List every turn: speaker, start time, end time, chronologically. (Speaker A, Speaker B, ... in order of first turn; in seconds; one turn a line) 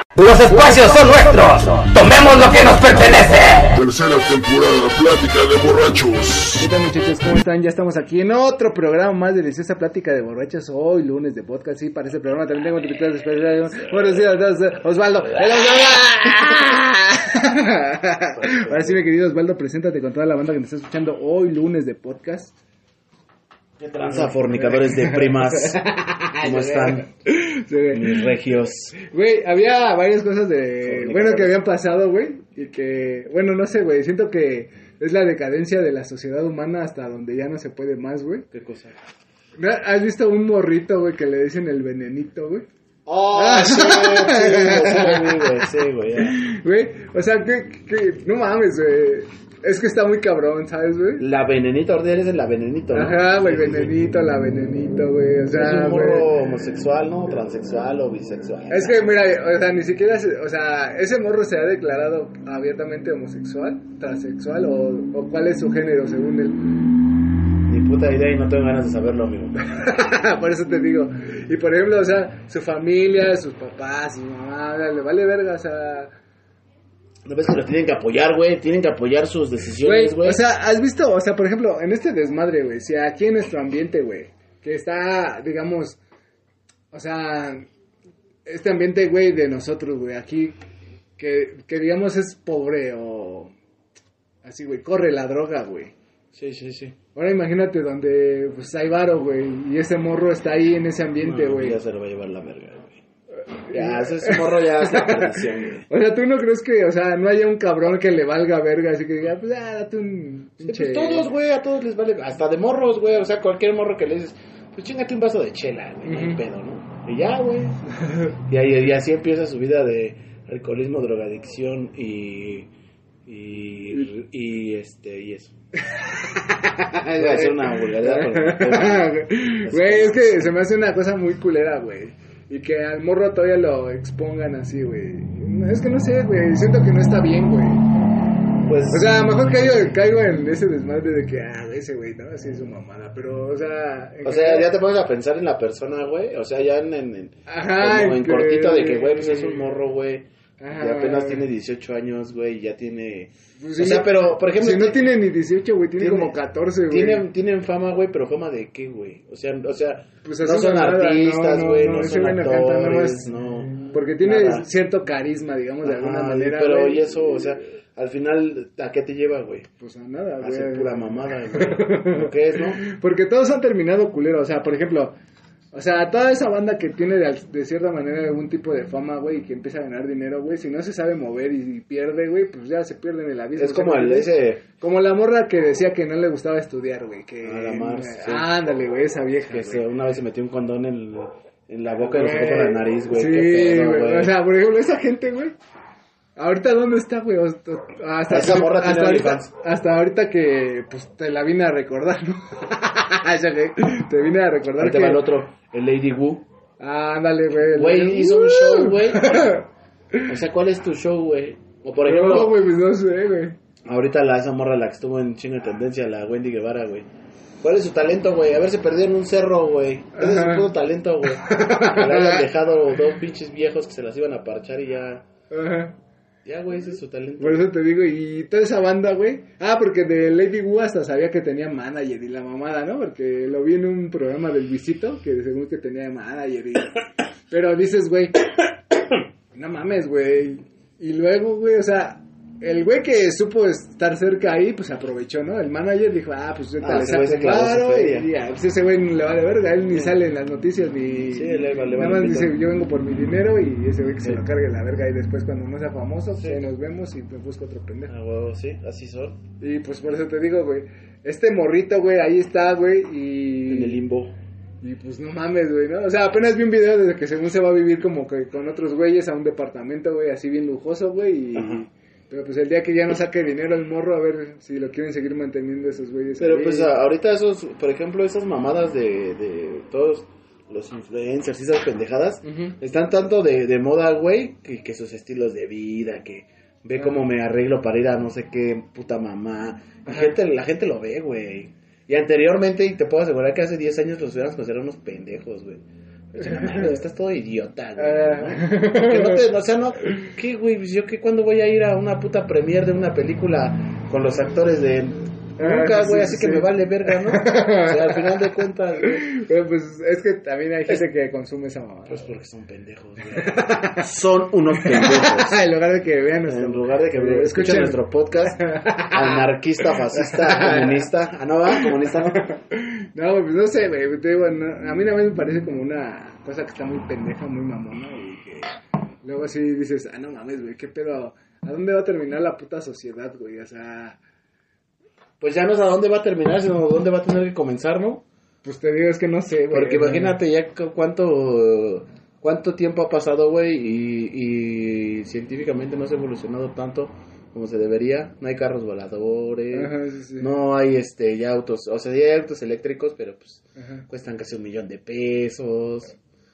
Speaker A: 0.2-3.7
Speaker B: 3.7-6.7
Speaker C: 6.6-22.5
Speaker D: 13.7-14.3
Speaker D: 18.3-19.0
Speaker D: 23.8-25.8
Speaker C: 24.0-28.3
Speaker D: 26.4-27.1
Speaker D: 27.9-28.9
Speaker C: 28.9-38.5
Speaker D: 30.8-31.6
Speaker D: 38.5-39.0
Speaker C: 39.6-42.7
Speaker D: 43.0-46.4
Speaker C: 43.3-51.2
Speaker D: 51.2-53.9
Speaker C: 52.9-56.3
Speaker D: 55.5-59.1
Speaker C: 58.7-66.7
Speaker D: 67.7-69.5
Speaker C: 69.6-76.1
Speaker D: 77.2-80.4
Speaker C: 79.8-86.0
Speaker C: 86.9-87.7
Speaker C: 88.5-90.6
Speaker C: 91.2-93.5
Speaker C: 94.4-95.9
Speaker D: 96.3-97.0
Speaker C: 97.1-101.8
Speaker D: 101.2-103.0
Speaker C: 103.5-105.4
Speaker D: 103.7-105.8
Speaker C: 105.9-111.3
Speaker D: 110.6-117.8
Speaker C: 116.0-116.4
Speaker C: 118.0-118.3
Speaker D: 118.5-122.7
Speaker D: 123.2-125.5
Speaker C: 125.9-137.9
Speaker D: 127.2-130.5
Speaker D: 138.6-140.0
Speaker C: 138.9-144.7
Speaker D: 144.2-155.1
Speaker C: 147.5-149.7
Speaker C: 150.6-151.4
Speaker C: 153.6-157.3
Speaker D: 156.0-164.7
Speaker C: 160.2-167.5
Speaker D: 165.8-169.7
Speaker C: 169.8-175.2
Speaker D: 170.4-172.8
Speaker C: 175.7-189.8
Speaker D: 183.6-184.6
Speaker D: 187.4-188.5
Speaker D: 189.5-194.3
Speaker C: 192.0-195.5
Speaker C: 196.4-205.2
Speaker D: 198.3-199.5
Speaker D: 204.8-206.4
Speaker C: 206.8-210.2
Speaker D: 207.5-209.5
Speaker D: 210.2-212.6
Speaker C: 212.0-213.6
Speaker D: 213.8-217.1
Speaker D: 217.6-225.2
Speaker C: 220.2-220.7
Speaker C: 221.3-222.5
Speaker C: 225.5-225.9
Speaker D: 226.4-227.7
Speaker C: 227.4-238.5
Speaker C: 239.5-258.1
Speaker D: 246.8-248.3
Speaker D: 249.9-250.2
Speaker D: 251.3-252.6
Speaker D: 256.3-256.6
Speaker D: 258.1-259.4
Speaker C: 259.6-264.0
Speaker D: 263.7-264.4
Speaker C: 264.8-276.9
Speaker D: 271.5-271.8
Speaker D: 276.4-309.3
Speaker C: 282.4-282.7
Speaker C: 286.9-287.3
Speaker C: 290.1-290.4
Speaker C: 296.4-297.0
Speaker C: 298.0-299.4
Speaker C: 305.6-308.5
Speaker C: 309.0-312.2
Speaker D: 312.1-315.6
Speaker C: 313.4-314.1
Speaker C: 314.8-321.1
Speaker D: 316.4-322.4
Speaker C: 321.7-334.2
Speaker D: 335.4-338.2
Speaker C: 338.6-340.4
Speaker D: 339.7-356.2
Speaker C: 349.7-350.5
Speaker C: 353.8-354.0